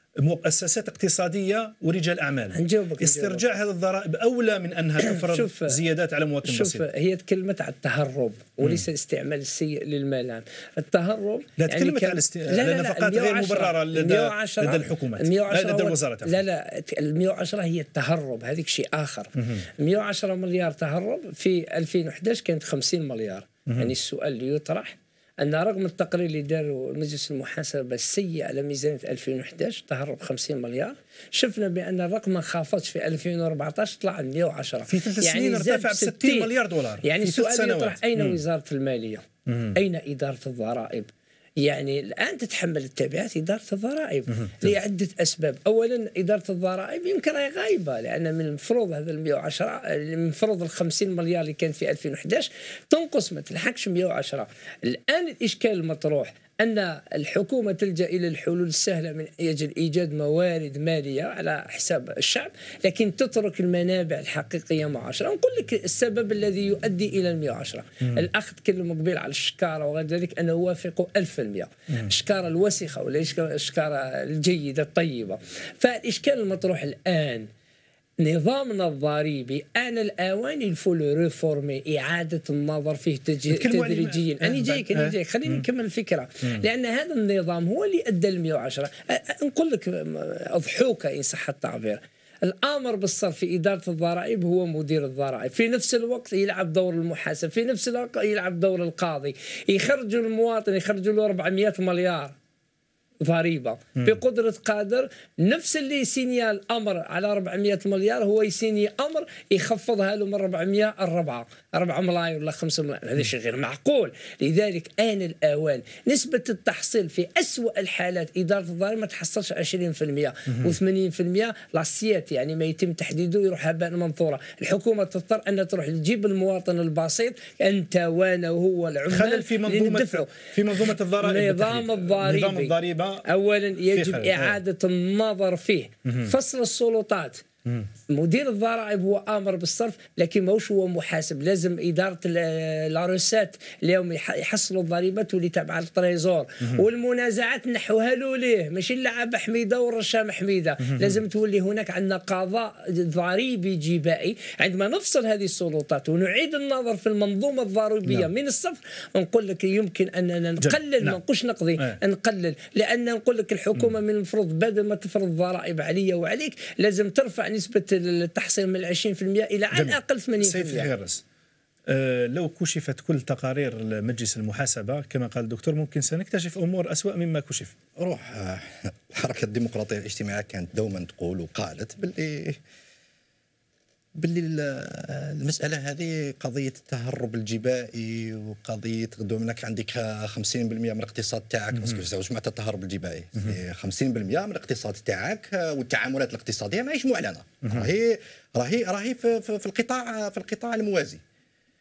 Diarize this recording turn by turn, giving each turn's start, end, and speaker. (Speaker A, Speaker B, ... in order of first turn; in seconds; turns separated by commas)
Speaker A: 0.2-6.8, Speaker B: 2.5-3.5, Speaker B: 5.0-5.8, Speaker B: 6.4-36.5, Speaker A: 11.6-16.4, Speaker A: 19.4-19.6, Speaker A: 23.7-23.9, Speaker A: 34.9-38.4, Speaker B: 37.0-77.5, Speaker A: 39.5-39.8, Speaker B: 78.2-102.3, Speaker A: 83.5-85.7, Speaker B: 103.2-130.3, Speaker A: 129.1-133.2, Speaker B: 131.2-137.4, Speaker A: 133.9-134.6, Speaker A: 136.1-136.3, Speaker B: 138.1-170.9, Speaker A: 160.6-161.2, Speaker A: 169.7-171.2, Speaker A: 171.9-177.7, Speaker C: 178.0-182.6, Speaker C: 184.2-201.2